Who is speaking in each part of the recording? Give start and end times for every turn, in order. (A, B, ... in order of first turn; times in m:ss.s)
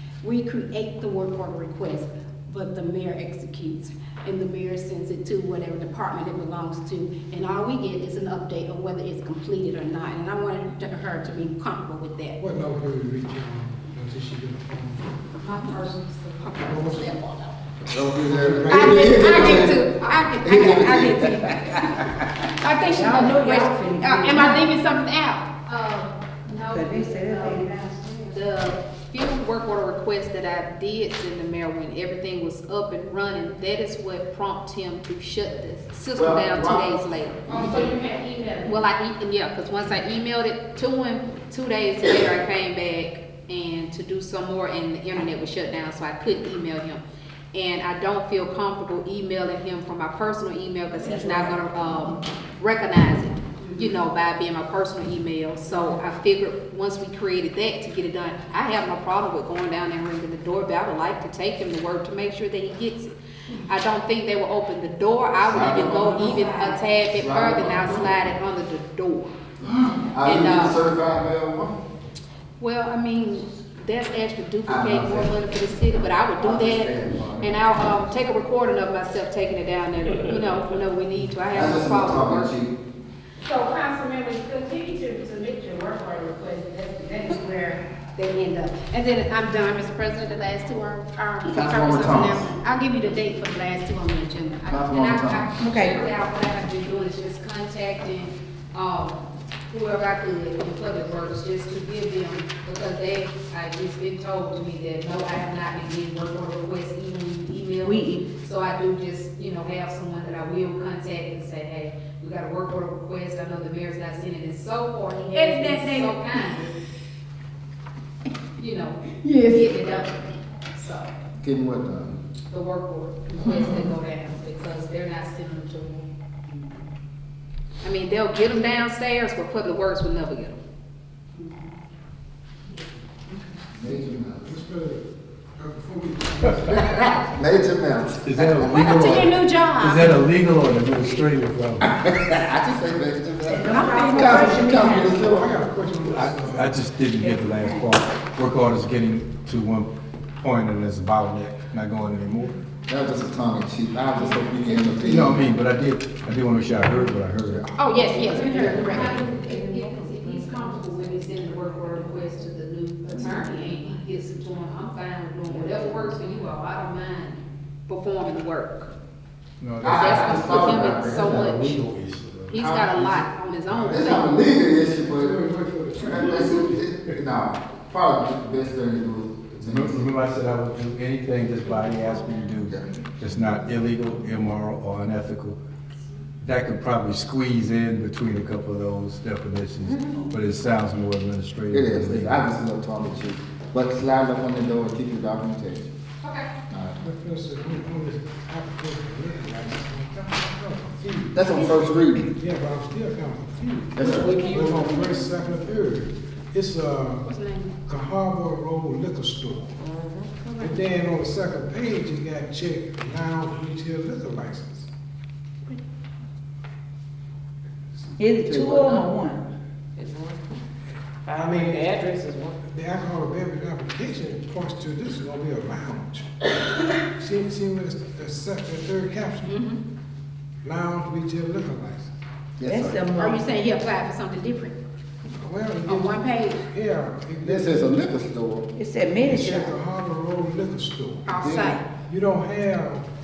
0:00.2-0:12.4 A
0:12.4-0:15.2 B
0:15.4-0:16.8 C
0:16.4-0:17.2 A
0:16.6-0:17.2 B
0:17.8-0:19.8 D
0:18.2-0:19.4 B
0:18.7-0:22.0 A
0:19.2-0:20.3 C
0:20.4-0:22.2 D
0:22.6-0:25.5 A
0:22.8-0:24.6 E
0:24.3-0:24.6 C
0:25.7-0:37.7 C
0:26.7-0:28.3 E
0:36.2-0:36.9 D
0:37.5-0:37.8 D
0:37.5-0:38.8 A
0:38.7-0:47.0 C
0:47.5-1:03.1 C
1:03.6-1:09.3 C
1:05.4-1:06.5 D
1:07.1-1:08.2 D
1:09.7-1:11.8 D
1:10.2-1:10.8 C
1:12.6-1:22.5 C
1:14.7-1:15.4 D
1:16.4-1:17.6 D
1:21.5-1:22.7 D
1:23.4-1:34.8 A
1:31.5-1:32.5 D
1:34.7-1:56.8 C
1:34.7-1:35.5 D
1:35.6-1:36.0 E
1:47.8-1:48.2 E
1:55.3-1:56.3 A
1:58.6-2:01.1 C
1:59.2-1:59.8 A
2:01.4-2:02.2 D
2:02.5-2:06.1 C
2:07.8-2:10.6 C
2:13.7-2:14.6 D
2:14.4-2:17.2 B
2:17.0-2:18.9 D
2:18.2-2:21.9 F
2:18.7-2:20.1 A
2:21.8-2:25.6 D
2:23.4-2:25.2 E
2:23.6-2:25.1 A
2:25.2-2:26.8 B
2:26.0-2:29.9 F
2:27.2-2:28.0 E
2:30.4-2:32.6 F
2:32.9-2:35.6 D
2:35.0-2:37.7 F
2:37.4-2:37.7 D
2:37.8-2:39.3 A
2:37.8-2:48.9 C
2:38.7-2:39.3 F
2:49.6-2:52.6 F
2:49.8-2:51.5 D
2:49.8-2:51.8 C
2:52.5-2:54.3 C
2:52.6-2:53.3 D
2:53.7-2:54.1 F
2:53.9-3:00.0 D
2:54.4-2:56.8 B
2:59.6-3:05.6 F
3:06.4-3:12.4 F
3:09.9-3:10.3 E
3:11.7-3:15.9 D
3:16.2-3:16.5 C
3:16.7-3:17.0 D
3:17.0-3:27.3 B
3:21.3-3:22.3 D
3:24.0-3:24.4 D
3:24.1-3:25.3 A
3:27.2-3:27.8 A
3:27.8-3:29.8 B
3:29.8-3:30.4 G
3:30.4-3:30.8 E
3:30.6-3:34.9 B
3:38.2-3:39.4 E
3:38.4-3:39.1 D
3:40.0-3:40.5 G
3:41.3-3:42.6 G
3:41.4-3:41.9 B
3:42.7-3:46.4 B
3:47.1-3:49.6 B
3:49.5-3:49.8 A
3:50.6-3:52.1 B
3:52.6-3:53.0 D
3:52.7-3:53.5 E
3:53.1-3:54.8 A
3:55.3-3:58.0 B
3:55.9-3:56.6 A
3:57.4-3:58.7 D
3:58.8-3:59.7 E
3:59.2-4:03.1 B
4:01.3-4:01.8 A
4:01.4-4:01.8 D